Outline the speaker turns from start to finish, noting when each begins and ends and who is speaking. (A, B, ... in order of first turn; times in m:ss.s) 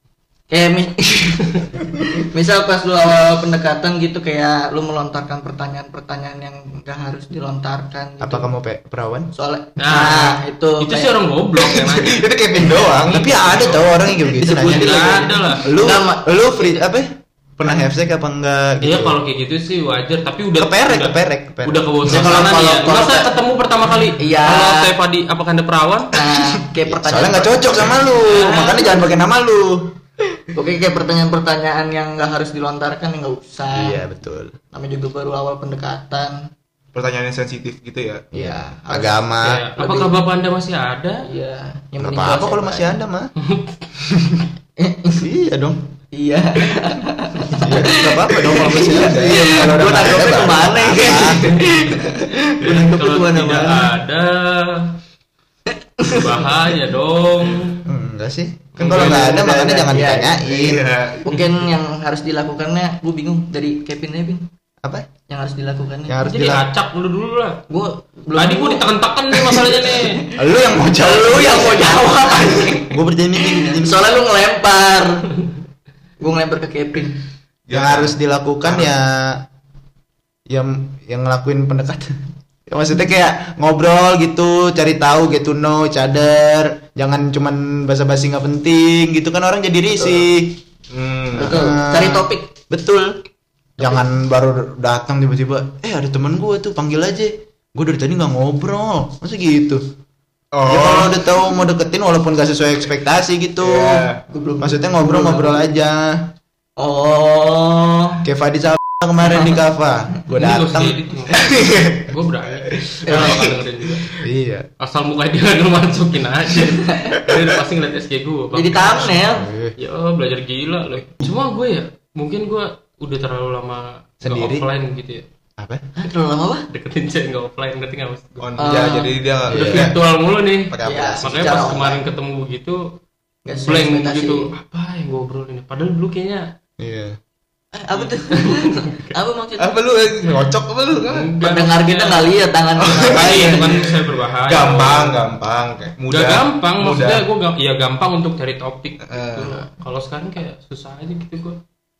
0:00.5-0:08.5 A
0:08.2-0:09.3 B
0:09.3-0:11.1 A
0:09.8-0:12.2 C
0:11.6-0:14.3 D
0:13.0-0:19.2 B
0:13.1-0:13.8 C
0:14.2-0:16.8 A
0:14.6-0:15.6 C
0:18.8-0:26.1 C
0:20.6-0:22.6 B
0:22.0-0:23.3 A
0:24.2-0:24.9 A
0:26.1-0:29.1 A
0:26.8-0:29.9 B
0:30.5-0:34.0 A
0:33.7-0:34.6 B
0:34.7-0:36.5 A
0:36.9-0:38.3 D
0:38.3-0:39.6 B
0:38.3-0:39.2 A
0:39.4-0:41.3 C
0:39.8-0:40.1 A
0:41.2-0:43.0 A
0:42.0-0:43.3 B
0:43.4-0:43.8 C
0:44.1-0:44.4 B
0:44.8-0:45.3 A
0:45.2-0:45.9 B
0:46.1-0:53.9 A
0:47.6-0:51.7 B
0:48.4-0:50.5 D
0:51.5-0:51.9 C
0:52.6-0:54.9 C
0:56.0-0:56.7 A
0:56.0-0:57.9 C
0:57.8-1:00.9 B
0:58.8-0:59.3 C
0:58.8-0:59.6 D
0:58.9-1:00.5 A
1:00.5-1:01.6 D
1:01.2-1:04.4 A
1:04.8-1:05.1 B
1:05.3-1:06.2 A
1:06.1-1:06.6 B
1:06.2-1:07.6 C
1:07.7-1:15.4 A
1:08.3-1:10.2 C
1:10.4-1:12.1 B
1:12.8-1:14.0 B
1:16.2-1:17.2 A
1:17.7-1:18.9 D
1:17.7-1:19.4 B
1:20.5-1:22.1 B
1:22.7-1:30.6 B
1:30.9-1:31.7 D
1:31.3-1:33.2 B
1:31.4-1:32.5 A
1:33.8-1:39.8 B
1:40.5-1:41.3 D
1:40.6-1:44.1 B
1:43.6-1:44.2 D
1:44.3-1:45.7 A
1:44.6-1:46.3 B
1:46.8-1:48.2 A
1:48.2-1:51.0 B
1:49.3-1:49.5 A
1:50.4-1:54.1 C
1:51.3-1:52.1 D
1:52.7-1:53.5 D
1:53.1-1:53.6 A
1:54.2-1:54.7 B
1:54.8-1:59.2 C
1:56.6-1:57.3 A
1:58.5-1:59.5 A
1:59.3-1:59.7 B
1:59.8-2:05.2 C
2:04.2-2:04.6 B
2:05.6-2:05.8 B
2:06.0-2:06.7 A
2:06.7-2:08.5 C
2:08.4-2:10.0 D
2:08.6-2:09.1 A
2:09.5-2:09.9 B
2:09.5-2:12.9 C
2:10.7-2:11.6 D
2:10.8-2:12.0 A
2:13.4-2:14.5 A
2:13.6-2:16.5 C
2:16.8-2:17.2 B
2:17.7-2:19.8 A
2:18.3-2:19.1 C
2:19.6-2:21.3 D
2:21.0-2:22.3 C
2:21.4-2:23.8 A
2:22.8-2:27.2 D
2:23.1-2:25.2 C
2:26.1-2:31.6 C
2:29.0-2:29.5 D